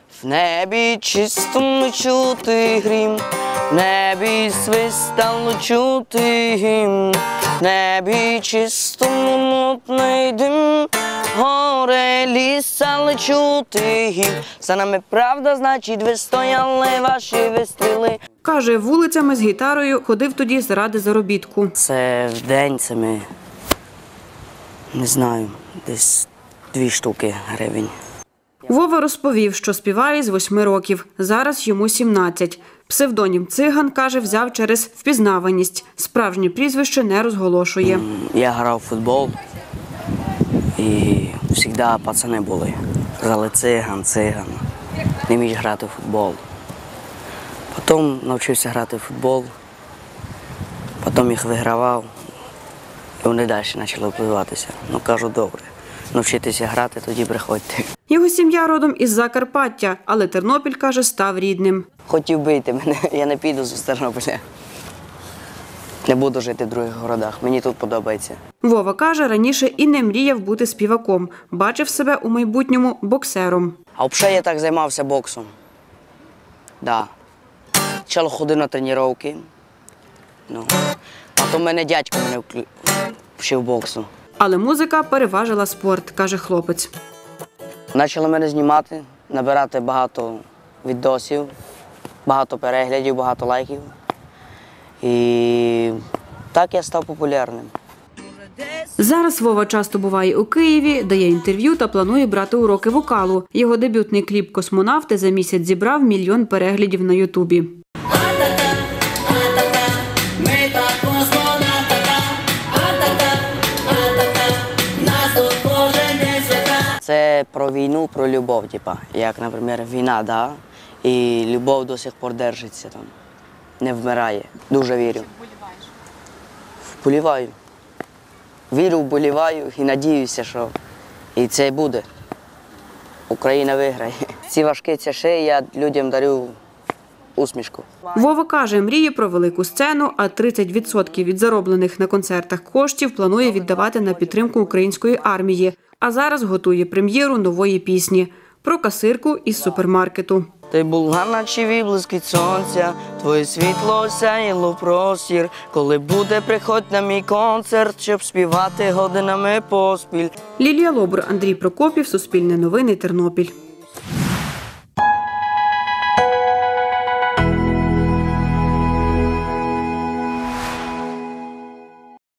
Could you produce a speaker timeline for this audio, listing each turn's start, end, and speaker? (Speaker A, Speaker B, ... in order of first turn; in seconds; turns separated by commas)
Speaker A: 0.2-18.2, Speaker B: 18.4-21.7, Speaker A: 21.8-23.2, Speaker A: 24.9-27.9, Speaker B: 28.7-38.1, Speaker A: 37.8-39.4, Speaker A: 40.8-44.6, Speaker A: 45.3-46.4, Speaker A: 47.7-49.5, Speaker A: 51.0-52.1, Speaker A: 53.2-57.9, Speaker B: 58.1-61.9, Speaker A: 62.1-64.4, Speaker A: 66.0-68.4, Speaker B: 68.6-73.8, Speaker A: 74.0-75.5, Speaker A: 76.8-77.1, Speaker A: 78.1-79.5, Speaker A: 81.4-82.7, Speaker A: 83.4-84.1, Speaker B: 84.4-86.9, Speaker A: 87.9-91.5, Speaker A: 92.3-93.9, Speaker A: 95.0-96.0, Speaker A: 96.5-97.7, Speaker B: 99.0-107.8, Speaker A: 117.0-123.1, Speaker A: 123.8-125.3, Speaker A: 127.0-127.5, Speaker A: 128.7-130.7, Speaker A: 131.4-132.1, Speaker A: 133.3-136.6, Speaker A: 137.4-137.9, Speaker B: 138.2-150.5, Speaker A: 150.7-160.3, Speaker B: 160.6-163.5